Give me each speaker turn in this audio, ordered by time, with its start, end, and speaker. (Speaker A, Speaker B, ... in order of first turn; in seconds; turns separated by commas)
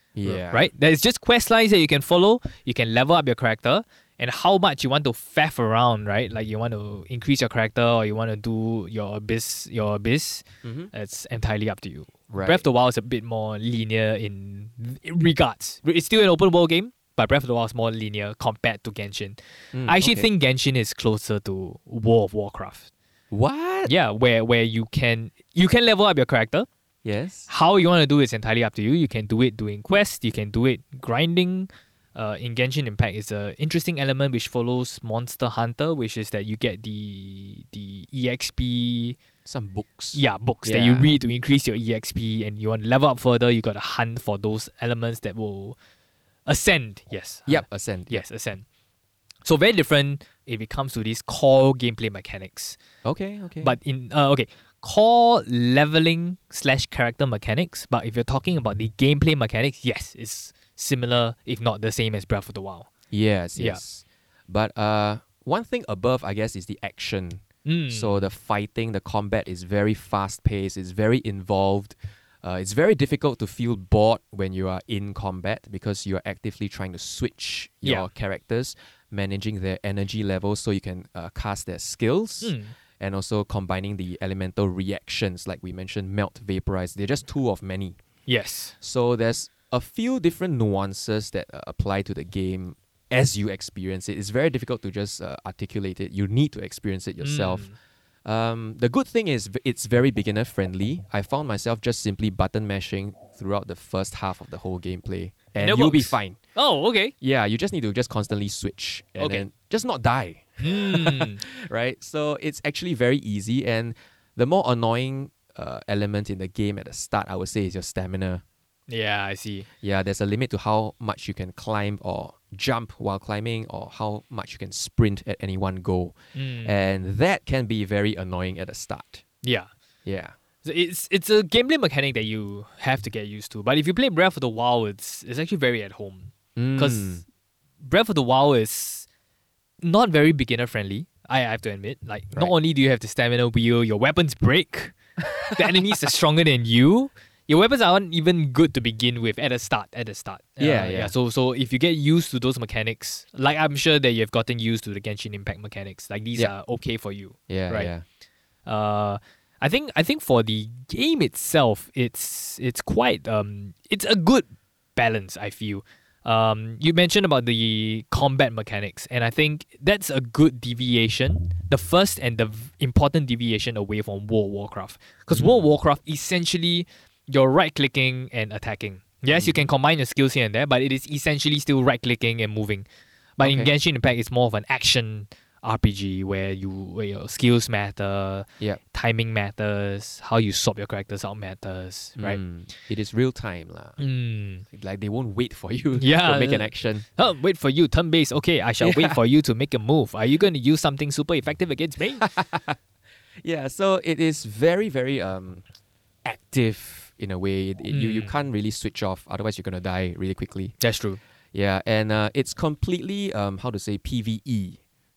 Speaker A: 0.2-0.7, Speaker B: 0.2-22.9, Speaker A: 10.6-10.9, Speaker A: 12.3-12.6, Speaker A: 19.7-20.3, Speaker A: 23.3-23.9, Speaker B: 23.9-26.7, Speaker A: 27.1-27.5, Speaker B: 27.5-39.2, Speaker A: 39.5-41.1, Speaker B: 40.1-45.8, Speaker B: 46.5-48.6, Speaker A: 47.5-48.2, Speaker B: 49.5-52.8, Speaker A: 53.0-53.8, Speaker B: 53.6-62.9, Speaker A: 63.1-88.0, Speaker B: 63.6-63.8, Speaker B: 67.7-68.3, Speaker B: 82.4-82.7, Speaker B: 88.3-88.8, Speaker A: 88.8-97.7, Speaker B: 97.2-97.8, Speaker A: 98.2-106.4, Speaker B: 105.6-107.1, Speaker A: 107.2-118.4, Speaker B: 109.2-109.5, Speaker B: 110.6-111.4, Speaker B: 118.9-119.7, Speaker A: 119.8-129.2, Speaker B: 126.3-126.8, Speaker B: 129.4-129.7, Speaker A: 130.1-130.3, Speaker B: 130.6-137.2, Speaker A: 136.6-137.2, Speaker B: 137.8-139.1, Speaker B: 139.8-145.0, Speaker B: 145.5-157.9, Speaker A: 150.6-151.1, Speaker A: 157.5-158.0, Speaker B: 158.7-182.9, Speaker A: 175.3-175.7, Speaker A: 179.3-179.6, Speaker B: 183.4-192.4, Speaker A: 183.4-183.7, Speaker A: 192.2-194.0, Speaker B: 194.0-194.6, Speaker A: 194.7-197.1, Speaker B: 196.0-202.2, Speaker A: 198.8-199.2, Speaker A: 202.2-202.8, Speaker A: 203.4-205.6, Speaker A: 206.2-210.8, Speaker B: 207.9-208.3, Speaker B: 210.8-211.2, Speaker A: 211.5-214.8